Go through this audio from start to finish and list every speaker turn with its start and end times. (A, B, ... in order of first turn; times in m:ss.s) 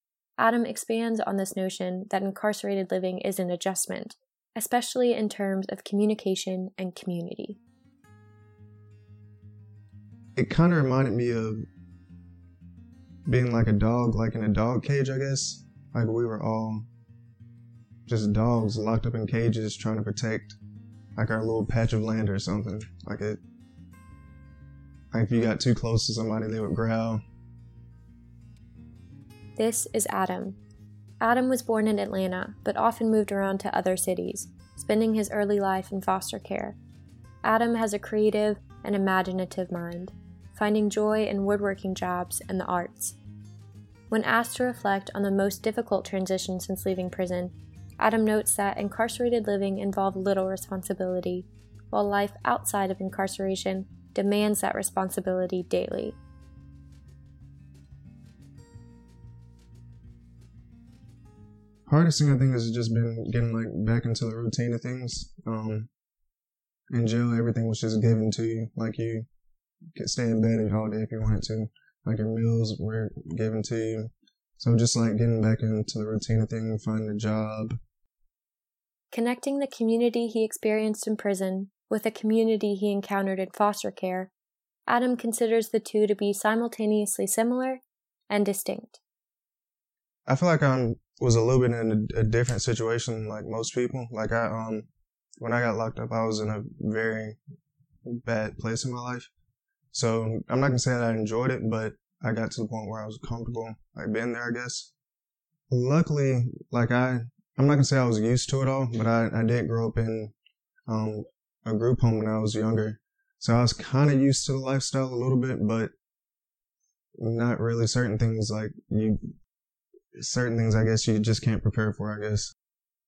0:00.4-0:07.6 A
0:10.4-0:11.6 B
0:13.2-0:16.9 B
0:18.1-0:20.6 B
0:21.2-0:23.4 B
0:25.1-0:27.2 B
0:29.6-0:30.6 A
0:31.2-0:36.8 A
0:37.4-0:43.2 A
0:44.1-0:56.2 A
1:01.9-1:05.9 B
1:06.9-1:09.3 B
1:10.0-1:17.8 B
1:19.1-1:24.3 A
1:24.9-1:29.0 A
1:30.3-1:34.9 B
1:35.4-1:37.4 B
1:38.1-1:39.3 B
1:39.9-1:44.9 B
1:45.7-1:50.3 B
1:50.9-1:55.9 B
1:57.2-1:59.3 B
2:00.1-2:02.5 B